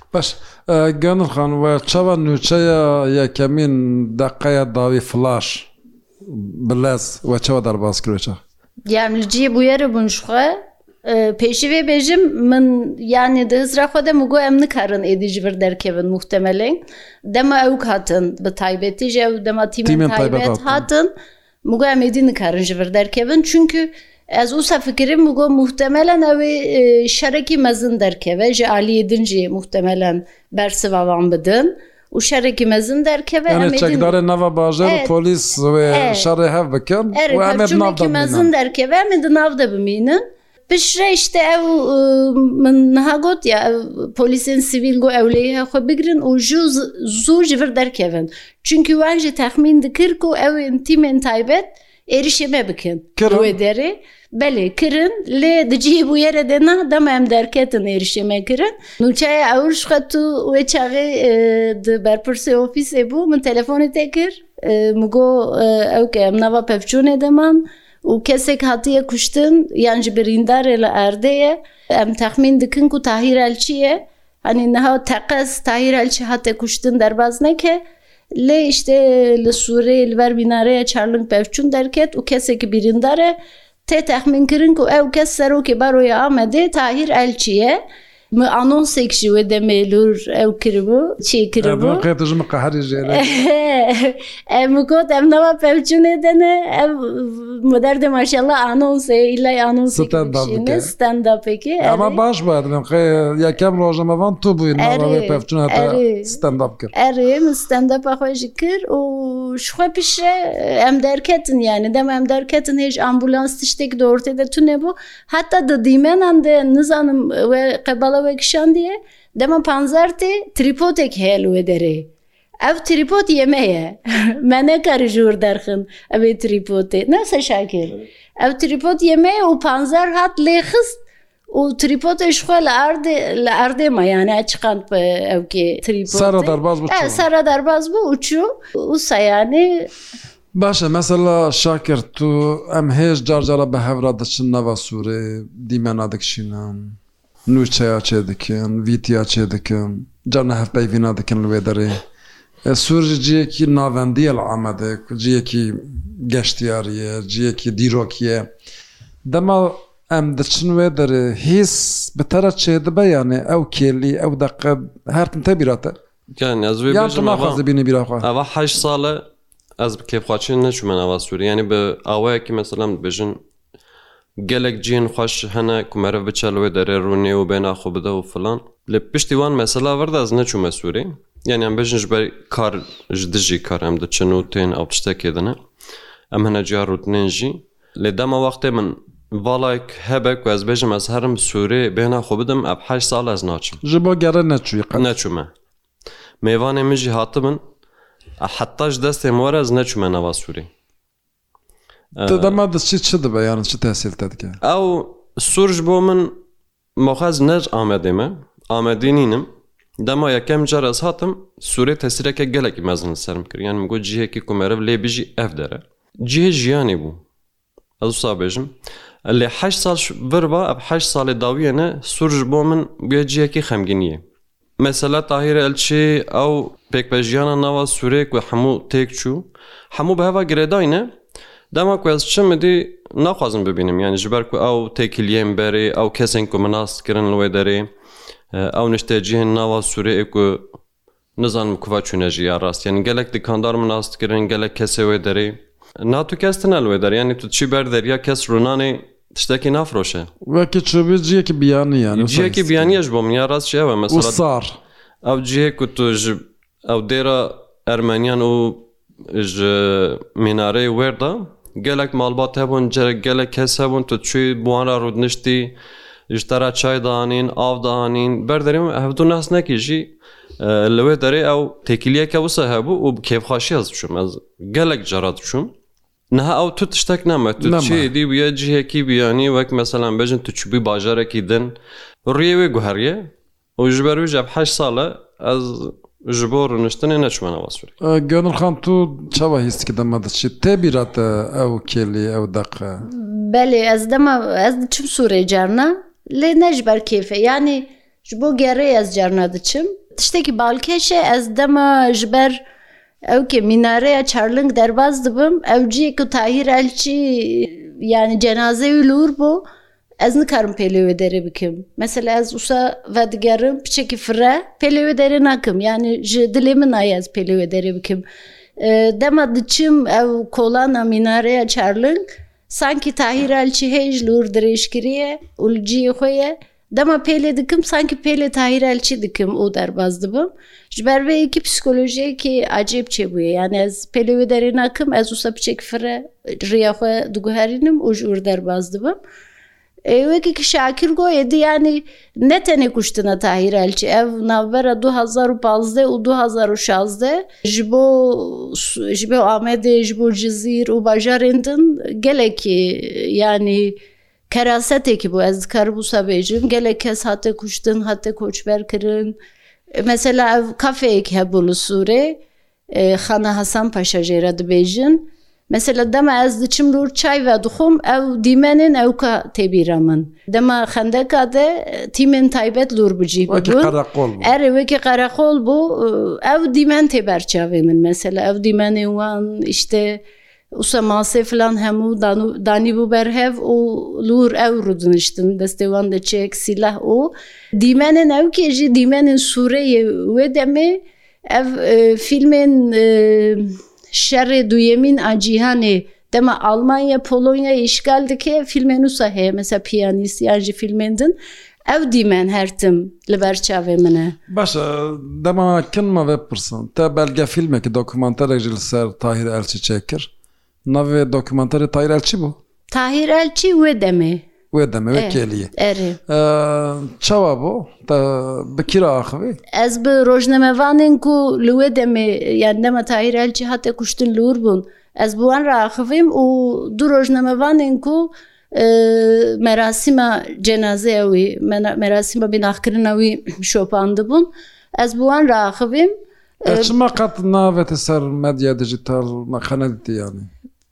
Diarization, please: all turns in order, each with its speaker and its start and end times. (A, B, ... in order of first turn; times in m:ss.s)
0:00.1-0:05.7 A
0:06.2-0:08.4 A
0:08.9-0:21.1 B
0:19.8-0:20.9 A
0:21.6-0:34.1 B
0:33.5-0:38.5 A
0:34.8-0:35.1 B
0:35.9-0:36.3 B
0:37.1-1:17.8 B
0:53.2-0:53.5 A
1:18.4-1:27.8 B
1:28.3-1:32.1 B
1:31.6-1:33.3 A
1:33.0-1:42.2 B
1:39.9-1:40.9 A
1:41.8-1:46.9 A
1:44.8-2:02.1 B
2:02.6-2:19.9 B
2:16.1-2:17.3 A
2:20.6-2:32.0 A
2:32.6-2:38.5 A
2:39.3-2:46.0 A
2:46.4-2:47.6 C
2:46.9-2:48.3 A
2:48.2-2:49.2 C
2:49.8-2:53.4 C
2:54.4-3:05.6 C
3:06.3-3:13.8 C
3:13.8-3:15.0 A
3:15.0-3:15.5 C
3:16.4-3:17.6 C
3:18.4-3:20.7 C
3:22.2-3:22.6 C
3:22.3-3:24.6 A
3:24.6-3:26.4 C
3:27.0-3:29.5 C
3:30.0-3:37.2 C
3:38.0-3:38.7 C
3:39.3-3:44.2 C
3:44.8-3:51.1 C
3:51.7-3:57.9 C
3:58.5-4:00.7 C
4:01.4-4:10.3 C
4:10.4-4:13.0 A
4:12.1-4:14.4 C
4:14.1-4:14.8 A
4:15.2-4:25.8 C
4:26.3-4:35.7 C
4:36.3-4:41.7 C
4:37.6-4:38.1 A
4:42.3-4:47.9 C
4:48.0-4:53.1 A
4:53.0-5:02.6 B
5:03.3-5:09.6 B
5:10.2-5:18.2 B
5:18.8-5:39.2 B
5:40.0-5:54.0 B
5:54.5-5:59.4 B
5:59.9-6:02.4 B
6:02.9-6:20.2 B
6:13.5-6:14.6 A
6:20.8-6:41.4 B
6:41.9-6:44.4 B
6:44.5-6:50.3 A
6:50.9-6:52.6 A
6:52.9-6:54.5 B
6:54.7-6:55.7 A
6:55.1-6:56.2 B
6:56.3-6:59.6 A
6:59.7-7:16.9 B
7:16.7-7:20.5 A